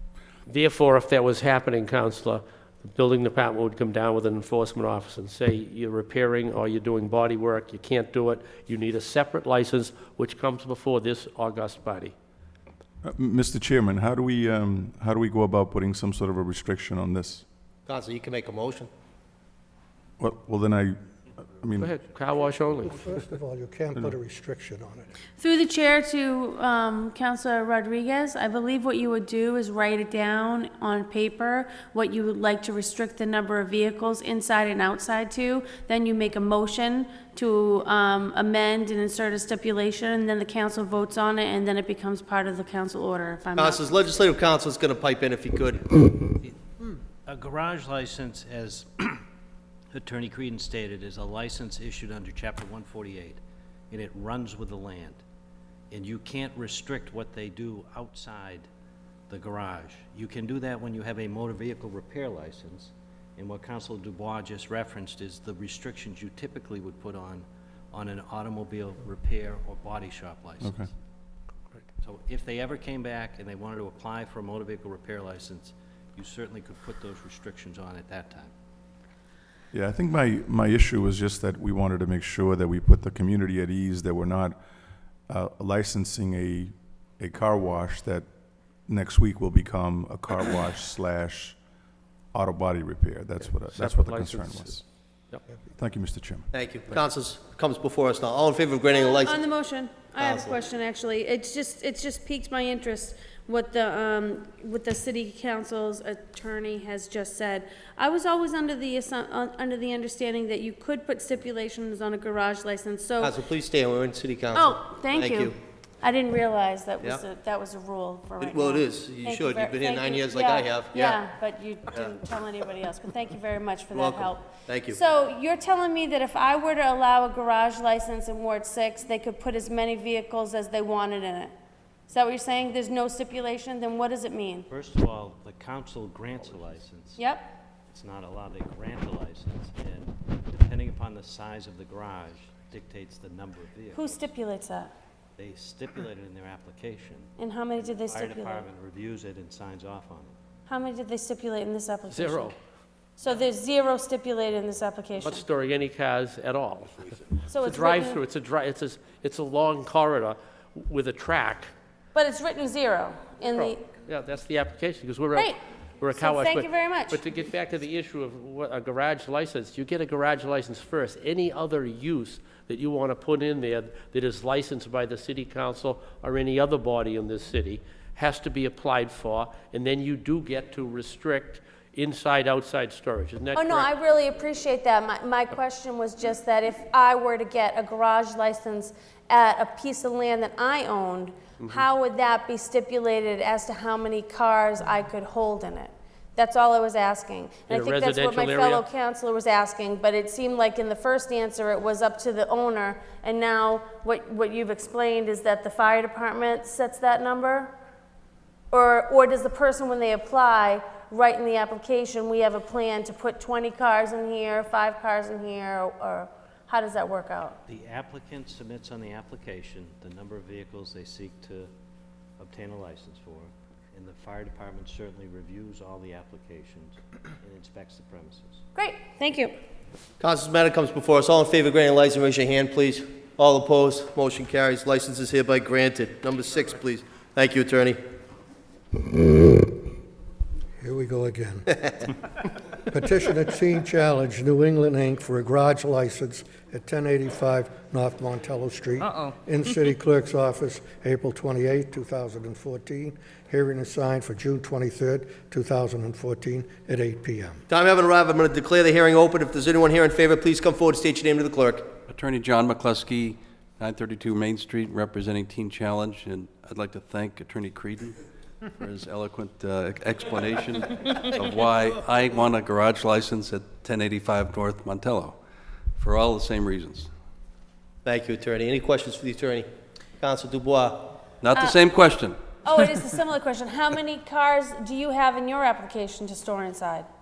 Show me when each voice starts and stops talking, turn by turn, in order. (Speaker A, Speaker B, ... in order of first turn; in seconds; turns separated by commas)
Speaker A: 0.5-12.1, Speaker B: 13.0-17.4, Speaker C: 17.9-18.9, Speaker B: 20.2-21.9, Speaker A: 21.8-23.1, Speaker D: 22.9-25.1, Speaker E: 25.4-44.4, Speaker C: 43.6-45.9, Speaker F: 46.4-49.2, Speaker F: 49.9-55.2, Speaker F: 55.9-58.7, Speaker F: 59.3-70.9, Speaker B: 70.6-70.9, Speaker F: 72.0-78.5, Speaker B: 79.7-84.6, Speaker B: 85.3-88.3, Speaker B: 88.9-91.6, Speaker B: 92.3-94.8, Speaker A: 93.5-94.8, Speaker B: 95.8-96.5, Speaker C: 96.5-99.4, Speaker E: 98.9-113.4, Speaker C: 100.2-100.6, Speaker C: 113.2-115.5, Speaker E: 114.5-131.5, Speaker C: 118.4-121.2, Speaker C: 123.9-125.0, Speaker E: 132.1-134.7, Speaker F: 134.7-137.2, Speaker E: 137.2-137.5, Speaker F: 137.9-144.3, Speaker E: 143.9-144.9, Speaker F: 145.4-150.3, Speaker E: 147.4-148.7, Speaker E: 150.7-152.5, Speaker A: 152.1-152.6, Speaker E: 153.2-155.4, Speaker A: 155.2-161.7, Speaker E: 157.5-158.2, Speaker E: 162.2-163.9, Speaker A: 163.6-183.9, Speaker E: 165.3-165.6, Speaker E: 166.1-167.2, Speaker E: 183.5-207.7, Speaker A: 197.7-198.8, Speaker E: 208.7-217.6, Speaker F: 217.7-221.7, Speaker F: 222.4-228.6, Speaker E: 228.8-229.5, Speaker C: 230.2-238.0, Speaker D: 240.8-242.1, Speaker D: 242.8-257.6, Speaker C: 257.7-261.9, Speaker G: 262.1-268.2, Speaker G: 268.7-275.4, Speaker G: 276.0-277.1, Speaker C: 278.1-279.7, Speaker C: 280.2-281.2, Speaker G: 281.4-282.4, Speaker E: 282.6-287.1